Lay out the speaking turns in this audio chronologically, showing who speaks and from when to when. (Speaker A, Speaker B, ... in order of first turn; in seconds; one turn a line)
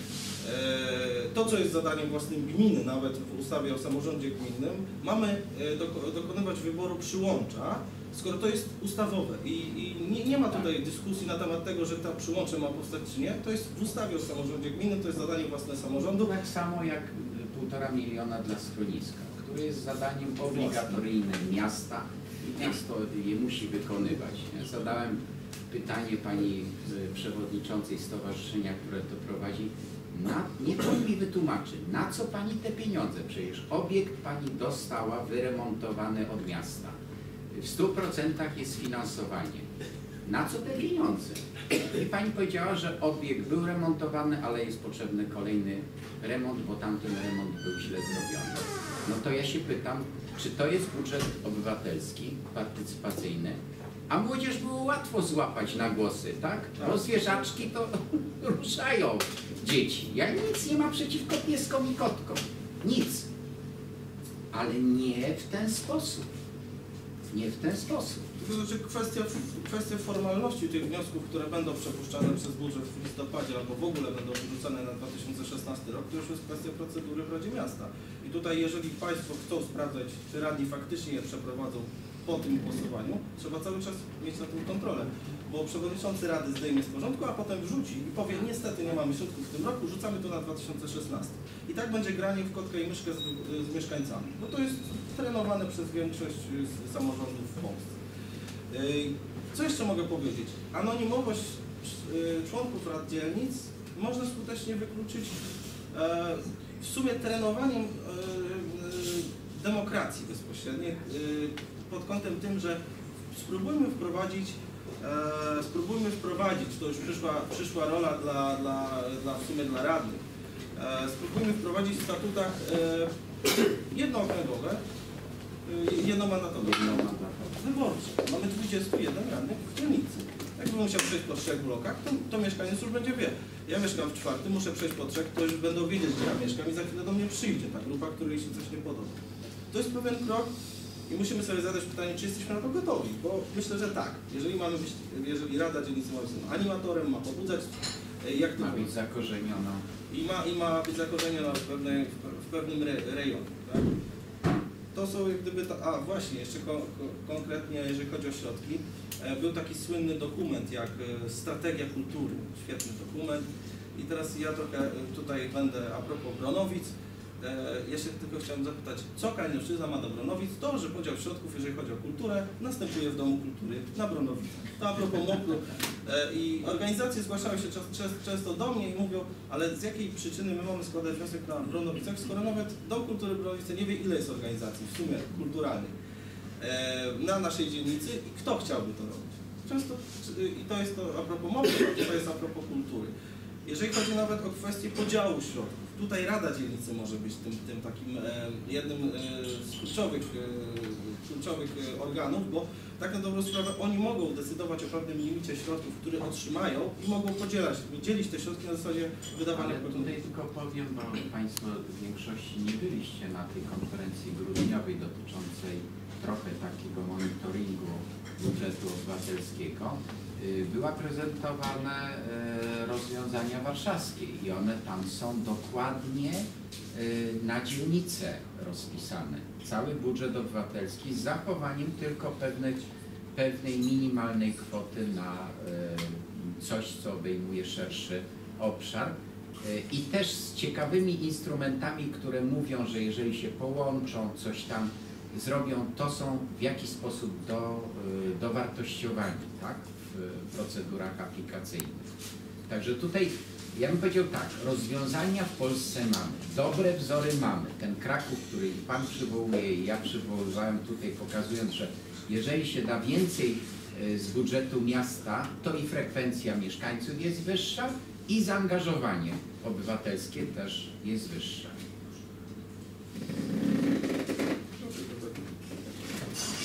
Speaker A: 0.4-16.3
Speaker B: 16.2-37.0
Speaker A: 20.5-21.0
Speaker B: 37.5-39.6
Speaker B: 40.2-53.6
Speaker B: 54.1-63.3
Speaker A: 56.8-57.4
Speaker B: 64.5-66.3
Speaker B: 67.3-68.3
Speaker A: 68.4-97.9
Speaker A: 98.7-105.4
Speaker A: 105.9-112.8
Speaker A: 113.3-120.2
Speaker A: 120.8-123.1
Speaker A: 123.8-124.8
Speaker A: 125.6-139.2
Speaker B: 126.6-127.6
Speaker A: 139.7-140.5
Speaker A: 141.1-148.9
Speaker B: 148.6-149.8
Speaker A: 150.1-153.9
Speaker A: 154.9-185.9
Speaker A: 186.6-193.1
Speaker A: 193.6-210.2
Speaker B: 209.5-252.1
Speaker B: 252.7-271.8
Speaker A: 274.9-275.2